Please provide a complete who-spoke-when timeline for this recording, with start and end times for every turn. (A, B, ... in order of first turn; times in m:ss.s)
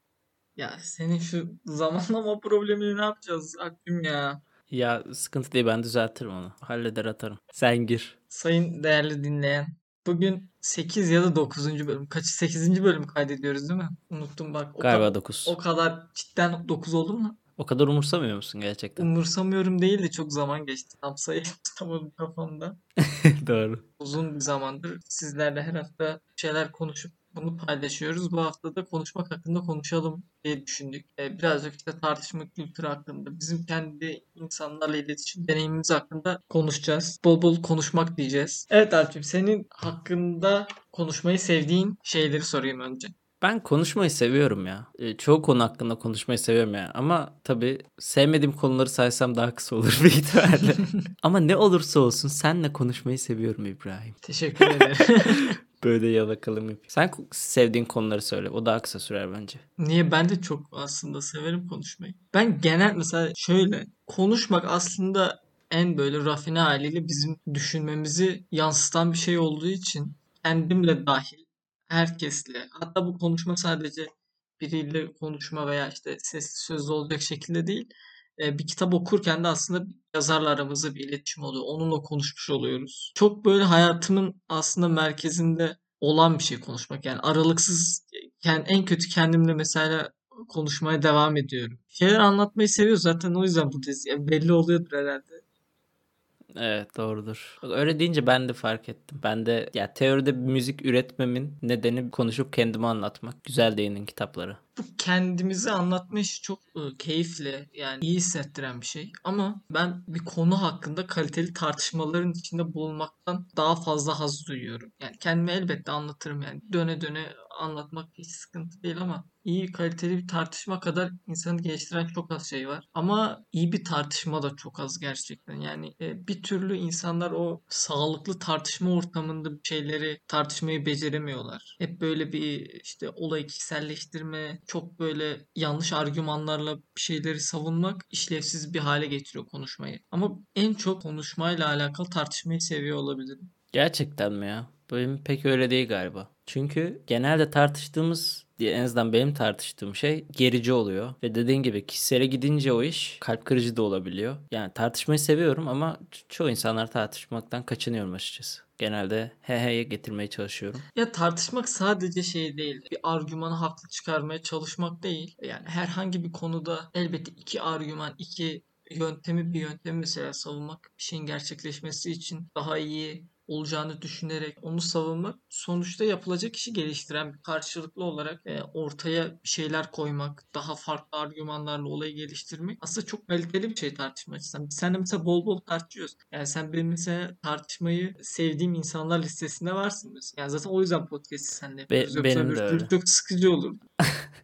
0:00.6-0:04.4 A
0:04.7-0:08.1 B
0:08.3-0:17.4 A
0:14.8-0:15.6 B
0:17.6-0:19.1 B
0:19.0-0:22.8 A
0:23.4-0:23.8 B
0:24.0-0:43.1 A
0:43.4-0:54.9 B
0:54.2-0:55.5 A
0:55.8-0:59.6 B
0:59.8-1:14.1 A
1:14.6-1:35.4 A
1:36.6-1:44.6 B
1:44.8-2:23.5 A
2:23.7-2:40.8 B
2:40.9-3:13.8 A
3:11.9-3:12.9 B